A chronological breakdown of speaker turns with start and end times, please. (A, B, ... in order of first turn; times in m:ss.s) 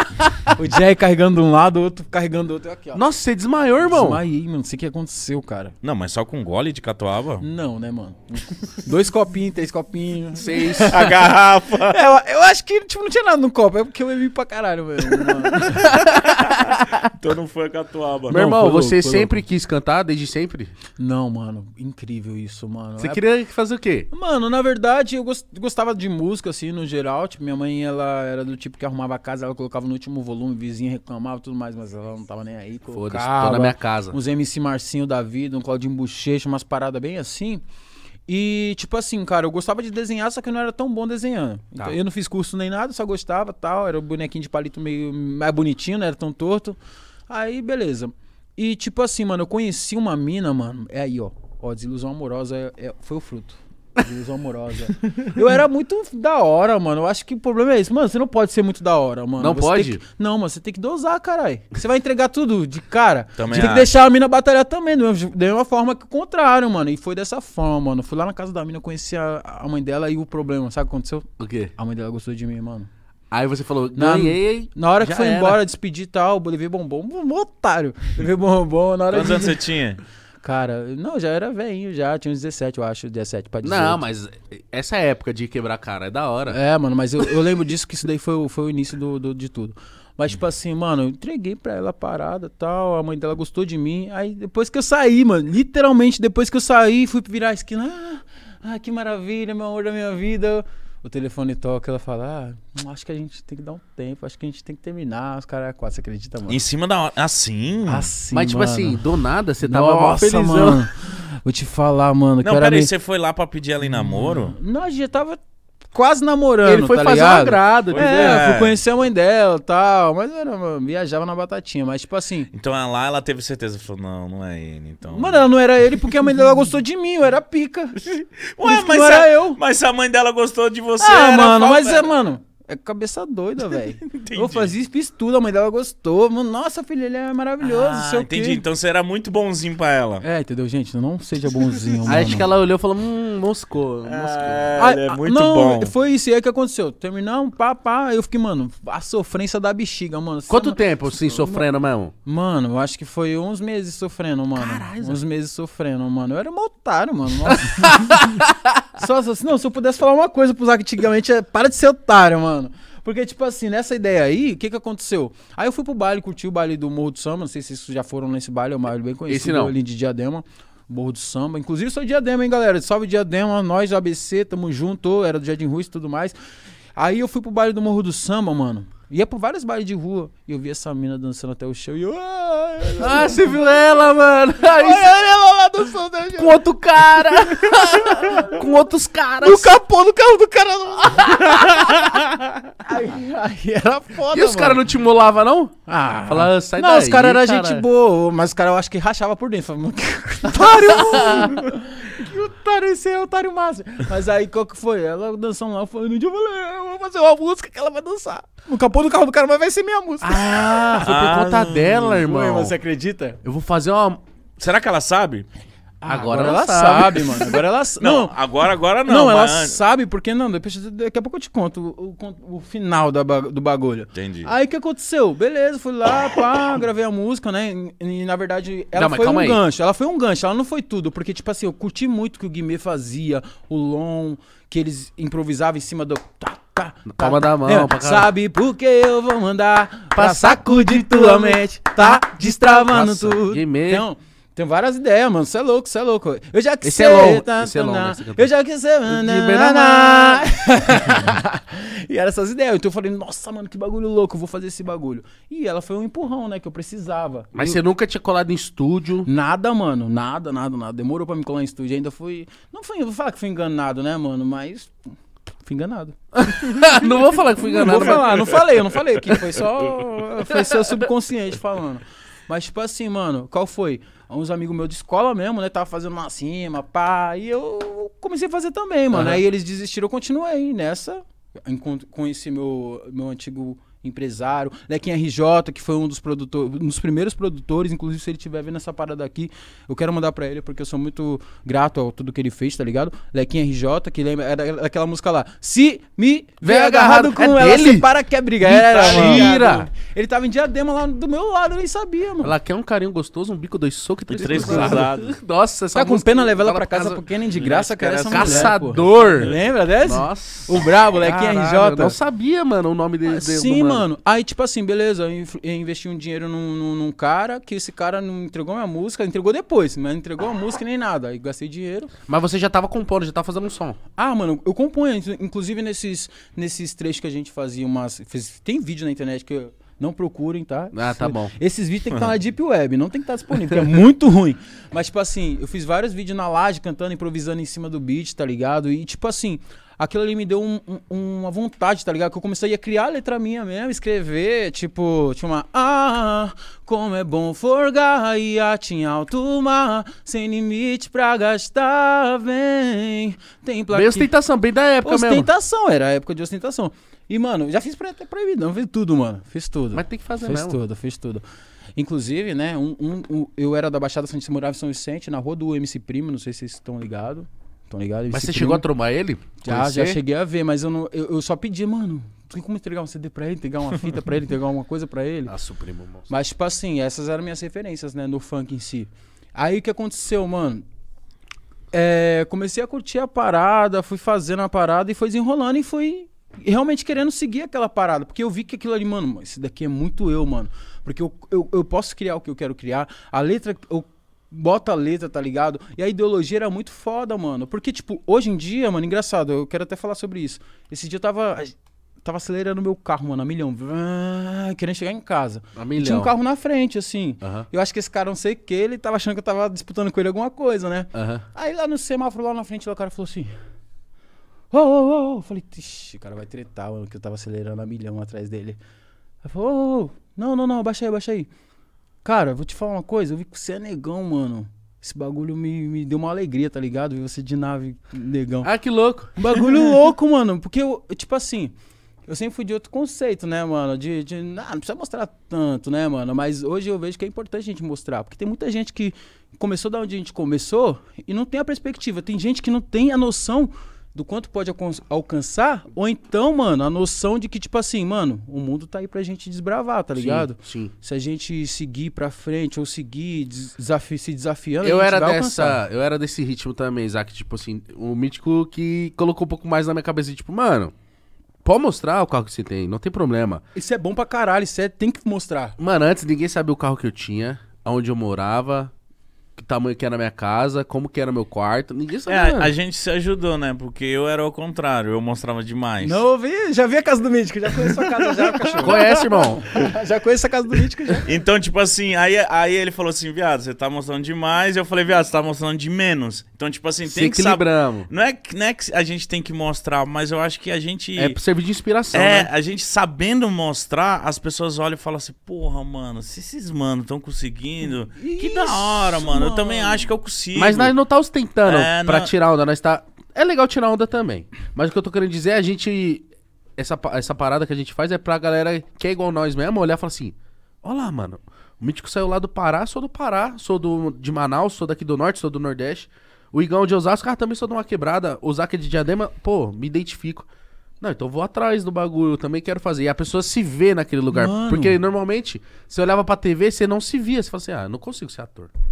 0:00.5-0:03.0 A
0:03.0-0:04.2 B
0:03.8-0:05.8 A
0:05.8-0:07.4 C
0:07.4-0:16.0 A
0:10.4-0:11.0 B
0:10.8-0:12.0 C
0:15.2-0:18.4 C
0:15.7-0:17.0 B
0:18.3-0:20.7 B
0:18.3-0:19.4 A
0:21.0-0:23.2 A
0:23.0-0:24.1 B
0:24.1-0:37.6 A
0:32.9-0:34.2 B
0:38.3-0:46.8 A
0:47.3-1:12.9 A
0:59.4-1:00.0 B
1:03.4-1:03.9 C
1:11.4-1:11.7 B
1:13.3-1:15.6 B
1:13.9-1:19.6 A
1:19.1-1:20.0 C
1:20.4-1:24.0 A
1:23.6-1:26.6 B
1:26.5-1:46.6 A
1:46.5-1:48.1 C
1:47.9-1:49.0 A
1:48.3-1:50.8 B
1:49.6-1:52.9 A
1:52.4-1:54.6 C
1:53.8-1:55.4 A
1:55.9-2:02.5 A
1:56.6-1:58.5 B
1:57.9-1:58.8 C
2:02.5-2:05.5 C
2:05.1-2:08.1 A
2:08.1-2:12.1 C
2:08.6-2:09.6 A
2:11.0-2:18.6 A
2:14.1-2:14.7 C
2:17.6-2:20.2 C
2:20.2-2:22.5 A
2:22.0-2:24.8 B
2:24.0-2:25.9 C
2:24.8-2:31.7 A
2:30.5-2:32.1 B
2:32.2-2:38.4 A
2:34.6-2:35.2 B
2:37.5-2:38.7 B
2:38.9-2:56.4 A
2:49.3-2:49.7 B
2:57.0-3:03.8 A
3:03.0-3:05.1 B
3:04.6-3:06.7 A
3:06.4-3:09.8 B
3:07.2-3:08.7 A
3:09.4-3:12.2 A
3:11.6-3:12.6 C
3:12.8-3:14.8 A
3:14.3-3:17.8 B
3:15.9-3:31.1 A
3:20.6-3:21.5 B
3:30.2-3:32.8 B
3:30.7-3:32.0 C
3:32.0-3:33.4 A
3:33.4-3:34.2 B
3:34.6-3:35.5 C
3:36.0-3:38.4 A
3:36.1-3:37.6 B
3:38.0-3:39.8 C
3:39.1-4:17.8 A
3:44.1-3:44.5 C
3:49.0-3:49.6 B
3:57.1-3:58.3 B
4:00.2-4:04.0 B
4:06.8-4:08.5 B
4:09.1-4:10.5 B
4:17.5-4:19.3 B
4:19.2-4:24.9 A
4:25.6-5:02.5 A
4:26.4-4:29.6 B
4:30.5-4:30.8 B
4:39.1-4:39.4 B
4:56.6-4:58.1 B
4:58.6-4:59.9 B
4:59.2-4:59.5 C
5:02.4-5:07.2 B
5:04.3-5:05.4 C
5:04.4-5:05.1 A
5:05.9-5:12.2 A
5:07.5-5:09.6 C
5:08.3-5:14.1 B
5:13.3-5:22.1 A
5:22.3-5:24.0 B
5:24.2-5:54.3 A
5:30.9-5:31.5 B
5:53.9-5:55.5 B
5:55.0-6:01.4 A
5:59.9-6:00.8 B
6:02.0-6:08.9 A
6:08.3-6:10.2 B
6:09.6-6:15.6 A
6:15.5-6:16.3 B
6:16.3-6:20.8 A
6:21.9-6:53.5 A
6:45.8-6:46.3 B
6:47.4-6:47.7 B
6:51.1-6:51.4 B
6:54.7-6:58.8 A
6:59.4-7:01.5 A
7:02.2-7:08.7 A
7:08.6-7:09.3 B
7:09.4-7:11.7 A
7:12.3-7:35.8 A
7:30.2-7:30.9 B
7:34.8-7:40.9 B
7:41.6-7:43.6 B
7:43.8-7:45.8 A
7:45.8-7:48.9 B
7:49.6-7:52.7 B
7:52.3-7:56.2 C
7:56.0-8:01.3 A
7:58.4-7:58.7 C
7:58.8-7:59.6 B
8:01.2-8:11.4 C
8:07.1-8:08.1 B
8:11.2-8:12.5 B
8:12.1-8:20.9 C
8:18.2-8:20.1 A
8:20.6-8:40.5 B
8:21.6-8:22.3 C
8:41.0-8:48.7 B
8:44.3-8:45.0 A